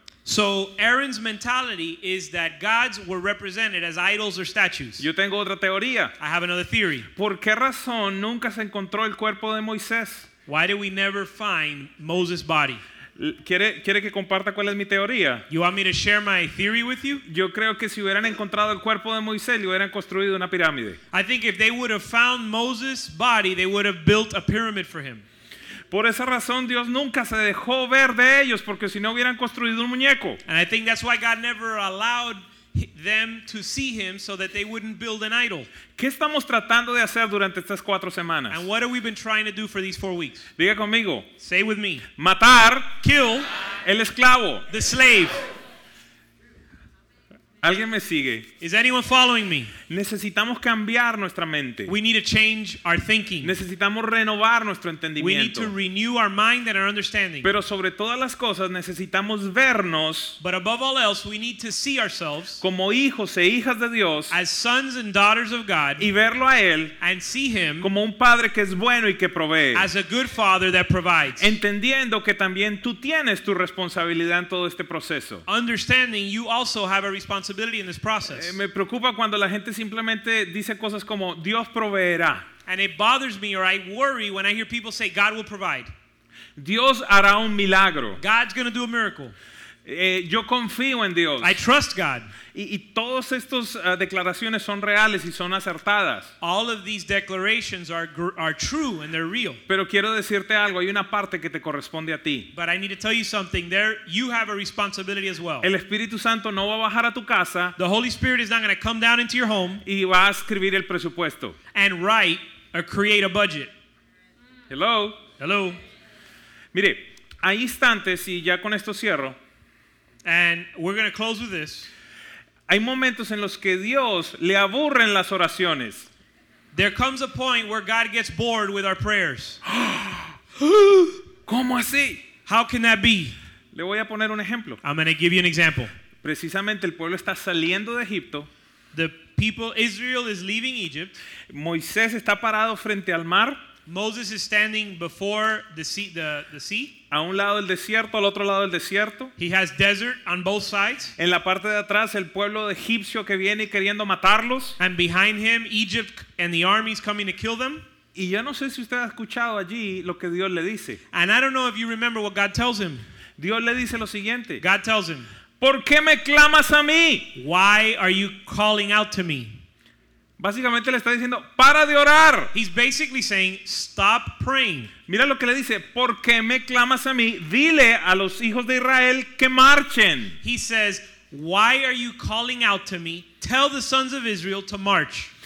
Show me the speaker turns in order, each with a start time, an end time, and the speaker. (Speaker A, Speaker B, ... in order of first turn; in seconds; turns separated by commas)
Speaker A: 0.2-5.1, Speaker B: 5.0-6.2, Speaker A: 6.2-7.1, Speaker B: 7.1-10.3, Speaker A: 10.4-12.8, Speaker B: 13.2-15.5, Speaker A: 15.5-17.2, Speaker B: 17.2-21.0, Speaker A: 21.1-25.2, Speaker B: 25.9-30.4, Speaker A: 30.4-35.7, Speaker B: 36.0-38.6, Speaker A: 38.5-40.5, Speaker B: 40.6-41.3, Speaker A: 41.4-42.0, Speaker B: 42.2-43.0, Speaker A: 43.0-43.5, Speaker B: 43.8-44.7, Speaker A: 44.7-45.4, Speaker B: 47.6-48.5, Speaker A: 48.6-49.7, Speaker B: 49.9-51.9, Speaker A: 51.9-53.5, Speaker B: 53.4-55.7, Speaker A: 55.2-57.5, Speaker B: 57.4-60.4, Speaker A: 60.4-62.6, Speaker B: 62.6-64.3, Speaker A: 64.3-66.1, Speaker B: 66.0-67.0, Speaker A: 67.0-67.9, Speaker B: 67.8-69.9, Speaker A: 69.7-71.5, Speaker B: 71.4-75.4, Speaker A: 75.5-78.5, Speaker B: 78.3-82.5, Speaker A: 82.7-85.9, Speaker B: 86.6-88.2, Speaker A: 88.2-89.3, Speaker B: 89.8-91.6, Speaker A: 91.4-92.3, Speaker B: 92.5-96.3, Speaker A: 96.4-99.6, Speaker B: 99.7-102.5, Speaker A: 102.5-105.7, Speaker B: 105.6-107.8, Speaker A: 107.8-109.8, Speaker B: 109.8-111.6, Speaker A: 111.7-113.7, Speaker B: 114.7-115.2, Speaker A: 115.4-115.8, Speaker B: 116.7-119.4, Speaker A: 120.2-121.9, Speaker B: 122.7-126.1, Speaker A: 126.7-129.6, Speaker B: 129.7-132.2, Speaker A: 132.4-133.3, Speaker B: 133.7-134.8, Speaker A: 134.8-135.9, Speaker B: 136.2-138.5, Speaker A: 138.9-141.2, Speaker B: 141.5-143.7, Speaker A: 143.9-146.9, Speaker B: 147.1-149.3, Speaker A: 149.4-151.1, Speaker B: 151.2-154.8, Speaker A: 154.8-157.8, Speaker B: 158.1-161.0, Speaker A: 161.1-163.0, Speaker B: 163.4-164.6, Speaker A: 164.6-165.3, Speaker B: 165.6-167.3, Speaker A: 167.3-169.6, Speaker B: 170.4-172.5, Speaker A: 172.5-174.9, Speaker B: 175.1-180.4, Speaker A: 180.4-185.3